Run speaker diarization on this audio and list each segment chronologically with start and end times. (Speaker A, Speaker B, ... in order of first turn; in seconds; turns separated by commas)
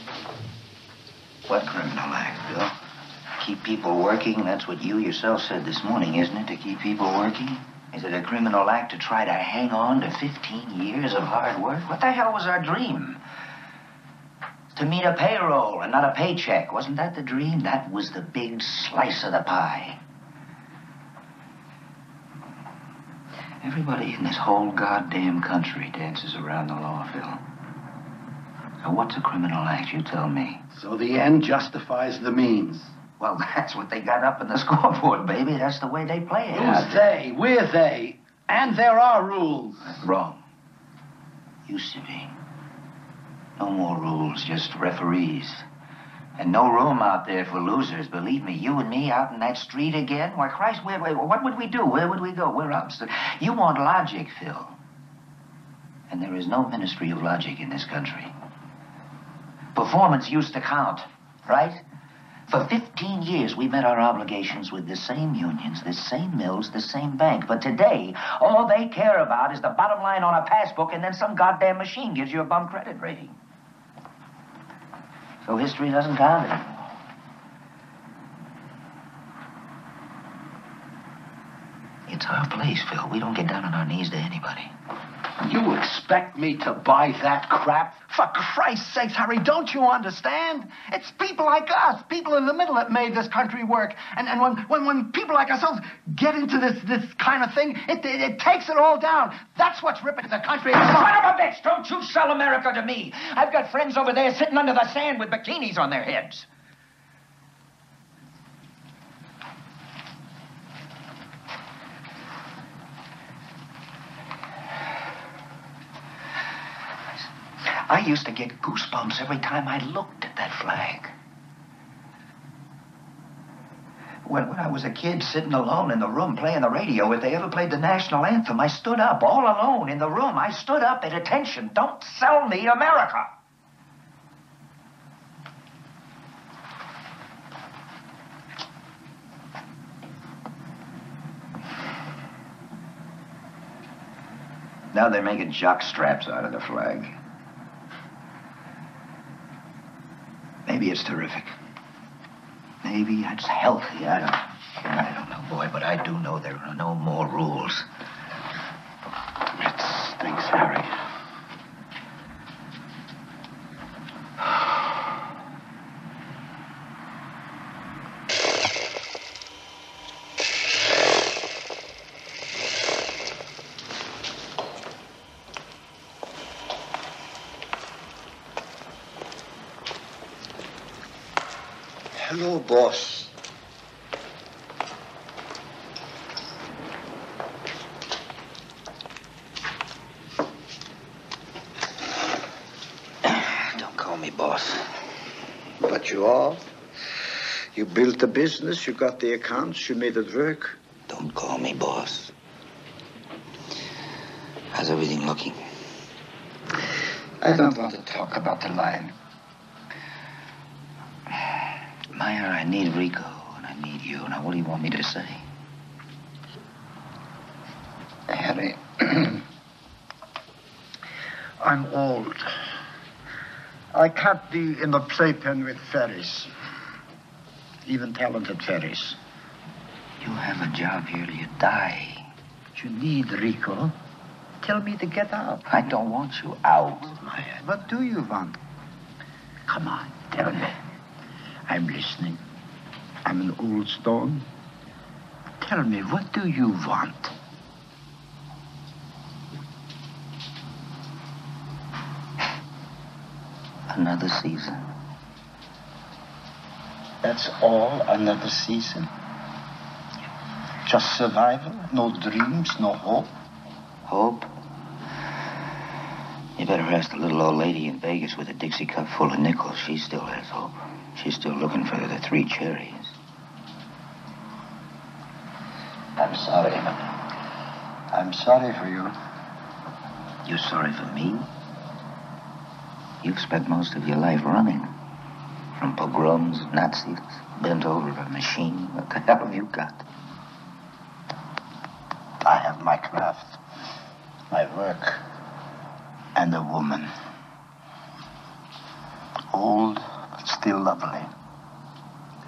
Speaker A: 1.5-2.7, Speaker A: 3.4-13.2, Speaker A: 14.7-20.0, Speaker A: 23.6-27.4, Speaker A: 28.8-30.6, Speaker B: 30.7-32.9, Speaker A: 33.2-37.0, Speaker B: 36.5-39.9, Speaker A: 39.9-40.4, Speaker A: 41.7-42.4, Speaker A: 43.6-45.6, Speaker A: 46.4-54.8, Speaker A: 56.1-58.3, Speaker A: 59.8-61.8, Speaker A: 62.5-73.3, Speaker A: 75.4-76.9, Speaker A: 82.1-84.7, Speaker B: 85.4-101.1, Speaker A: 100.8-106.5, Speaker A: 117.8-121.1, Speaker A: 124.2-133.3, Speaker A: 144.9-147.2, Speaker A: 150.7-151.5, Speaker A: 152.8-157.9, Speaker B: 159.6-160.9, Speaker C: 159.8-160.4, Speaker C: 182.2-183.3, Speaker A: 193.2-194.9, Speaker C: 195.8-196.6, Speaker C: 197.7-200.8, Speaker A: 201.1-202.3, Speaker A: 204.7-205.6, Speaker C: 207.4-209.2, Speaker A: 212.1-215.4, Speaker C: 218.3-219.4, Speaker C: 221.6-222.5, Speaker C: 223.9-226.5, Speaker C: 227.9-229.2, Speaker A: 230.2-232.3, Speaker C: 232.8-233.9, Speaker C: 234.6-235.6, Speaker A: 235.7-237.4, Speaker C: 237.4-238.6, Speaker C: 239.7-240.8, Speaker C: 241.7-242.4, Speaker C: 243.2-244.5, Speaker C: 245.6-247.3, Speaker A: 253.9-254.9, Speaker C: 257.2-259.1, Speaker C: 260.9-263.3, Speaker A: 264.1-264.5, Speaker A: 266.6-273.1, Speaker C: 276.2-277.1, Speaker C: 278.1-279.1, Speaker A: 280.5-281.5, Speaker A: 283.2-284.9, Speaker A: 285.8-290.1, Speaker C: 292.4-293.6, Speaker C: 294.5-295.2, Speaker C: 296.4-297.1, Speaker C: 299.5-301.3